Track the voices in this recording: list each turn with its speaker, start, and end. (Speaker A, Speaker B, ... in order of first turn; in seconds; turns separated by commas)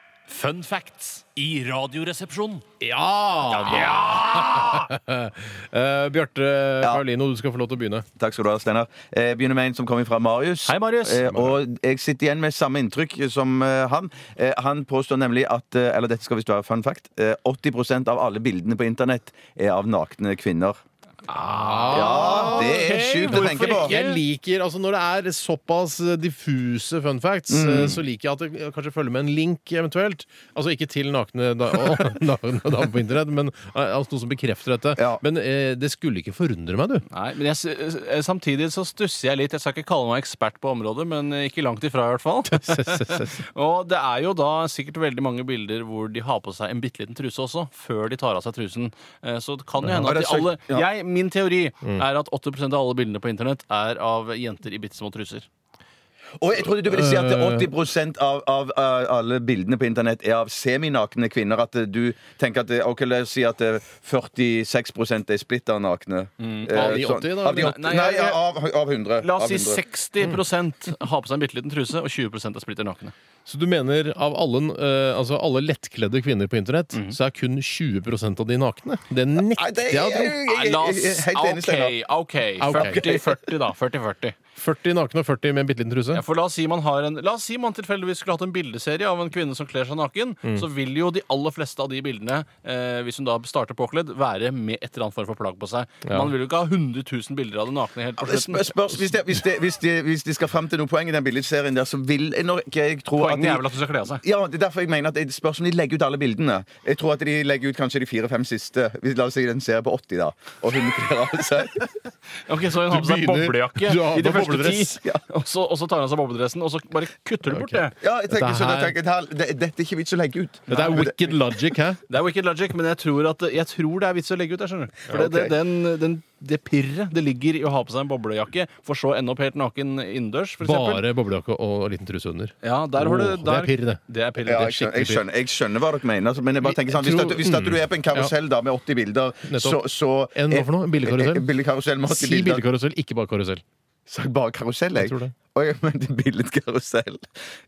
Speaker A: 0.3-2.6, Speaker B: 2.8-8.1, Speaker A: 3.5-4.7, Speaker C: 8.2-20.8, Speaker A: 10.7-11.3, Speaker B: 11.2-11.6, Speaker B: 21.3-37.0, Speaker A: 21.5-24.2, Speaker C: 21.9-24.0, Speaker C: 27.5-28.0, Speaker C: 35.0-35.2, Speaker A: 37.1-55.5, Speaker B: 42.5-43.4, Speaker B: 49.8-50.1, Speaker C: 50.0-50.9, Speaker C: 56.4-69.8, Speaker B: 56.6-57.7, Speaker A: 66.4-68.4, Speaker B: 66.7-67.8, Speaker A: 69.2-73.1, Speaker B: 73.5-80.4, Speaker C: 79.5-82.0, Speaker A: 80.5-84.4, Speaker B: 82.6-83.0, Speaker C: 82.8-83.3, Speaker B: 84.6-86.2, Speaker A: 86.1-98.9, Speaker B: 96.1-96.3, Speaker C: 98.2-111.9, Speaker A: 103.2-104.2, Speaker A: 112.5-118.0, Speaker B: 112.8-115.0, Speaker B: 117.5-119.0, Speaker C: 118.0-121.3, Speaker B: 120.7-122.0, Speaker A: 120.7-121.0, Speaker A: 122.1-131.1, Speaker C: 125.2-125.6, Speaker B: 130.6-134.0, Speaker A: 132.6-135.2, Speaker C: 134.4-142.7, Speaker B: 136.6-138.3, Speaker B: 139.5-141.5, Speaker B: 142.1-143.6, Speaker C: 144.1-147.3, Speaker B: 145.0-145.3